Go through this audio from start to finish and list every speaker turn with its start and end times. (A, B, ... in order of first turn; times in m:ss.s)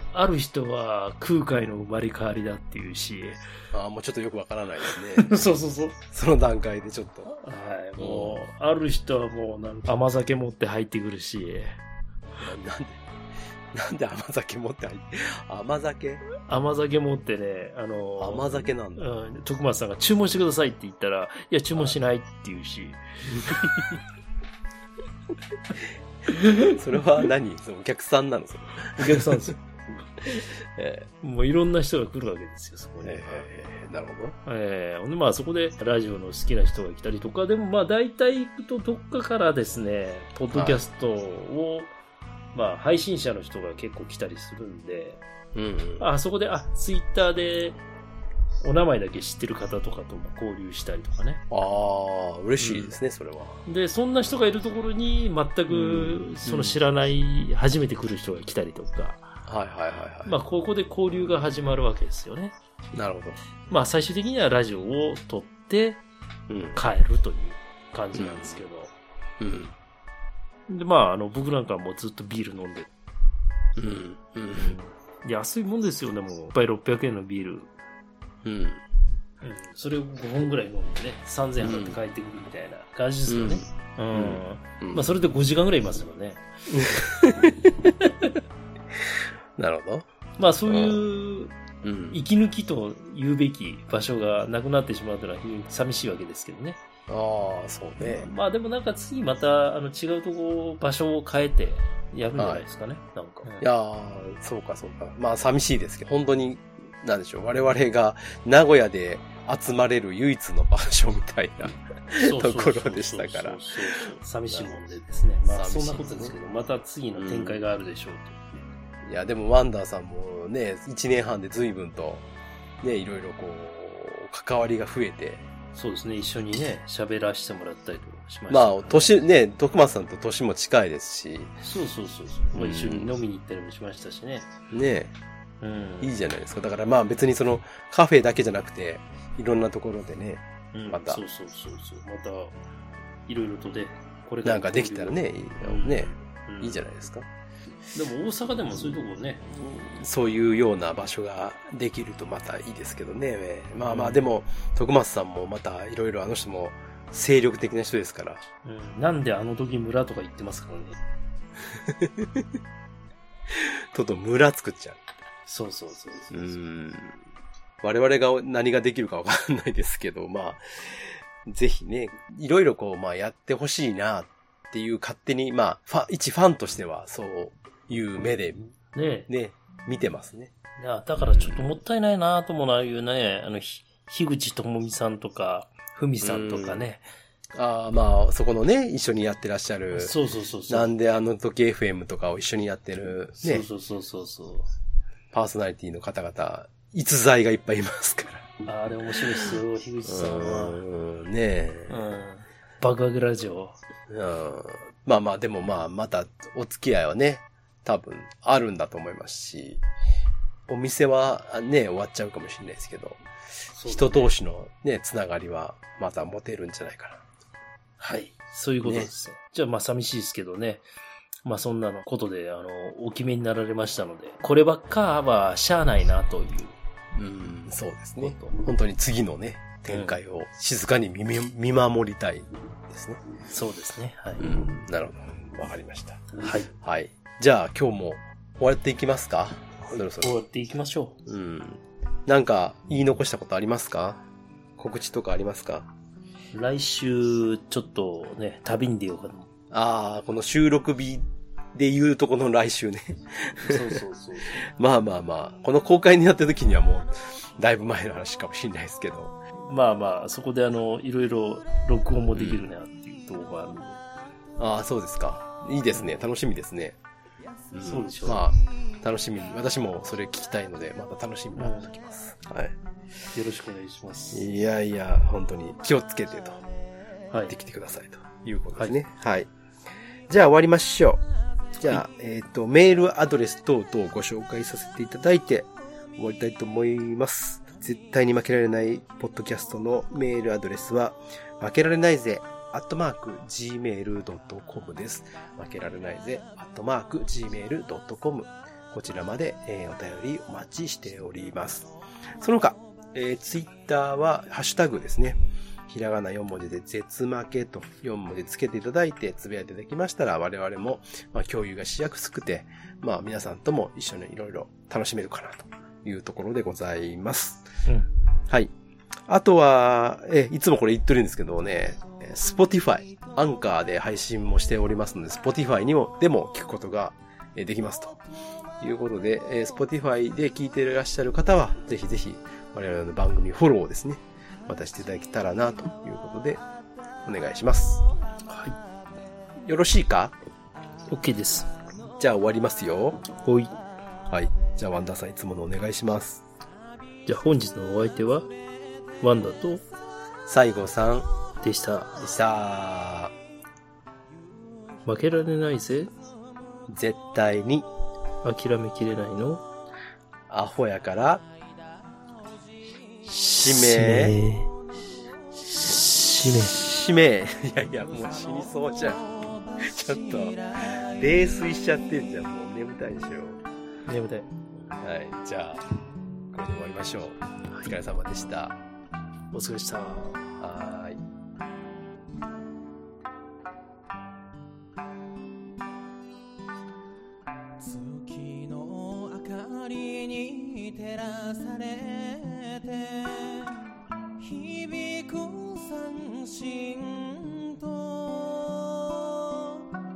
0:00.1-0:03.4 A
0:03.7-0:05.3 B
0:05.2-0:06.0 A
0:06.1-0:07.3 B
0:07.3-0:11.8 A
0:08.0-0:08.4 B
0:12.4-0:13.0 B
0:13.7-0:16.2 B
0:16.4-0:23.0 A
0:18.2-0:19.1 B
0:23.4-0:24.0 B
0:26.3-0:26.8 A
0:26.4-0:29.5 B
0:29.0-0:29.6 A
0:30.7-0:31.1 B
0:31.2-0:33.5 A
0:33.0-0:34.3 B
0:34.4-0:41.9 A
0:40.5-0:40.8 B
0:42.5-0:45.2 A
0:45.5-0:46.1 B
0:46.0-0:47.8 A
0:48.6-0:51.4 A
0:51.5-0:53.6 B
0:52.6-0:52.9 A
0:53.6-0:59.4 A
0:55.7-0:56.8 B
0:59.4-1:00.3 B
1:00.2-1:02.5 A
1:02.9-1:03.4 B
1:03.7-1:06.0 A
1:06.5-1:06.8 B
1:06.7-1:08.9 A
1:08.1-1:08.6 B
1:09.4-1:09.7 B
1:10.7-1:12.9 A
1:13.8-1:14.8 B
1:14.5-1:17.7 A
1:18.4-1:18.8 B
1:19.4-1:26.4 A
1:21.6-1:22.0 B
1:23.3-1:25.1 B
1:26.7-1:28.1 B
1:29.6-1:30.1 B
1:30.4-1:31.6 A
1:30.7-1:31.0 B
1:31.8-1:32.2 B
1:32.1-1:36.8 A
1:37.1-1:38.3 B
1:38.0-1:43.7 A
1:42.4-1:42.6 B
1:43.6-1:53.7 B
1:52.2-1:58.4 A
1:54.5-1:54.8 B
1:55.5-1:56.3 B
1:57.2-1:57.6 B
1:59.0-2:02.2 B
2:02.8-2:05.4 B
2:05.7-2:09.1 A
2:08.5-2:11.5 B
2:11.6-2:14.5 A
2:12.5-2:13.1 B
2:14.7-2:15.2 B
2:15.6-2:16.1 A
2:16.0-2:21.2 B
2:20.7-2:22.5 A
2:23.3-2:26.8 A
2:24.4-2:27.3 B
2:27.9-2:29.5 A
2:29.5-2:38.4 B
2:33.8-2:34.2 A
2:38.6-2:41.0 A
2:41.7-2:42.5 B
2:43.5-2:45.0 B
2:45.5-2:46.6 A
2:46.3-2:47.2 B
2:47.8-2:58.7 B
2:58.9-2:59.3 A
2:59.3-3:00.5 B
3:00.8-3:07.0 A
3:01.2-3:01.8 B
3:06.2-3:06.8 B
3:07.5-3:10.1 B
3:09.9-3:10.9 A
3:10.7-3:13.6 B
3:13.4-3:14.7 A
3:15.3-3:18.5 B
3:18.6-3:20.8 A
3:20.1-3:22.0 B
3:21.9-3:23.8 A
3:24.1-3:29.8 B
3:30.7-3:33.2 B
3:33.7-3:34.3 A
3:33.8-3:37.2 B
3:38.0-3:40.8 A
3:38.8-3:39.1 B
3:41.4-3:46.7 A
3:47.1-3:53.2 B
3:48.2-3:48.6 A
3:49.9-3:50.2 A
3:53.5-3:54.7 A
3:54.4-4:00.3 B
3:56.4-3:56.7 A
3:59.8-4:01.2 A
4:01.2-4:04.2 B
4:04.8-4:05.9 B
4:06.5-4:09.5 A
4:09.7-4:14.0 B
4:13.6-4:14.6 A
4:14.6-4:19.4 B
4:19.6-4:24.0 A
4:22.3-4:22.6 B
4:24.6-4:27.0 B
4:27.7-4:32.8 B
4:27.8-4:28.5 A
4:31.6-4:31.9 A
4:33.3-4:34.4 A
4:34.3-4:36.6 B
4:37.5-4:39.5 B
4:40.3-4:41.2 B
4:41.8-5:17.7 B
5:19.3-5:28.2 B
5:28.8-5:36.6 B
5:37.2-5:38.0 B
5:38.5-5:38.8 A
5:39.6-5:40.3 B
5:41.1-5:41.7 A
5:42.2-5:43.2 B
5:43.3-5:43.7 A
5:44.3-5:46.4 B
5:47.2-5:48.5 A
5:49.2-5:49.8 A
5:50.4-5:51.3 B
5:51.6-5:52.2 A
5:52.2-5:53.3 B
5:55.0-5:56.1 A
5:56.9-5:57.9 B
5:58.4-5:59.6 A
6:00.5-6:01.4 B
6:03.2-6:04.7 A
6:03.5-6:04.4 B
6:05.6-6:06.8 A
6:06.6-6:13.6 B
6:08.0-6:11.1 C
6:14.1-6:14.5 A
6:15.0-6:15.8 B
6:16.5-6:18.8 B
6:19.5-6:20.5 A
6:20.6-6:21.2 B
6:27.8-6:33.8 C
6:34.4-6:39.8 C